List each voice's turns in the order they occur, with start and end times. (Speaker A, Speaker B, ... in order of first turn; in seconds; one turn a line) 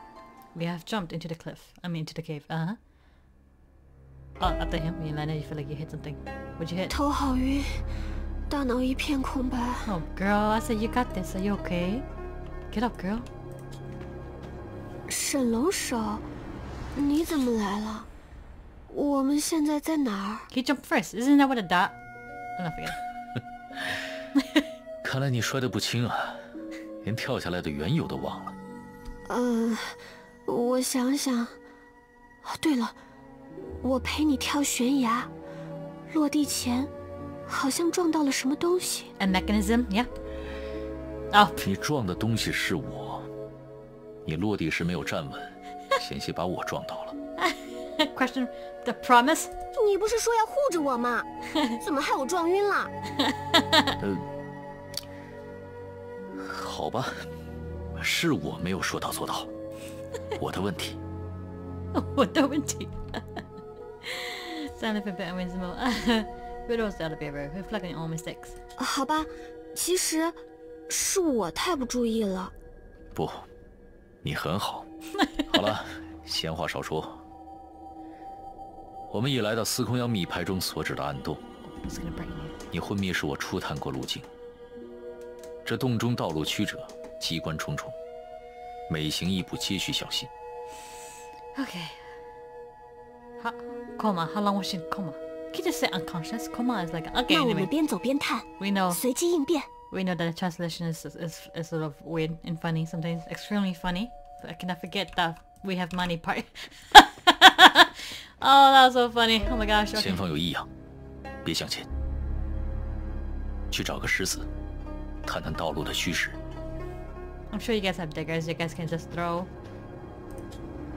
Speaker A: 0.5-2.8
Speaker A: 4.4-6.9
Speaker B: 6.9-7.8
Speaker B: 8.5-9.9
Speaker A: 9.9-12.1
Speaker A: 12.7-13.3
Speaker B: 15.1-16.2
Speaker B: 16.9-18.1
Speaker B: 18.9-20.5
Speaker A: 20.5-21.9
Speaker A: 22.6-23.0
Speaker C: 25.0-26.5
Speaker C: 27.0-28.6
Speaker B: 29.3-31.6
Speaker B: 32.4-33.0
Speaker B: 33.8-35.3
Speaker B: 36.1-36.9
Speaker B: 37.5-39.1
Speaker A: 39.2-40.1
Speaker A: 41.3-41.6
Speaker C: 41.6-43.3
Speaker C: 44.2-47.1
Speaker A: 47.4-49.5
Speaker B: 49.8-51.3
Speaker B: 51.8-52.9
Speaker A: 53.5-53.9
Speaker C: 54.0-54.2
Speaker C: 56.4-57.3
Speaker C: 58.0-59.5
Speaker C: 60.4-61.0
Speaker A: 61.9-63.2
Speaker A: 64.0-68.5
Speaker B: 68.8-72.5
Speaker C: 73.1-73.5
Speaker C: 74.2-74.9
Speaker C: 75.5-77.2
Speaker C: 79.1-81.4
Speaker A: 81.7-82.5
Speaker C: 82.7-84.3
Speaker C: 85.6-87.9
Speaker C: 88.9-90.3
Speaker A: 91.5-92.1
Speaker A: 93.4-97.7
Speaker B: 97.3-99.7
Speaker A: 98.6-99.0
Speaker A: 99.9-110.2
Speaker C: 109.9-110.7
Speaker C: 111.4-111.9
Speaker C: 113.7-114.5
Speaker C: 115.2-116.4
Speaker A: 117.5-119.5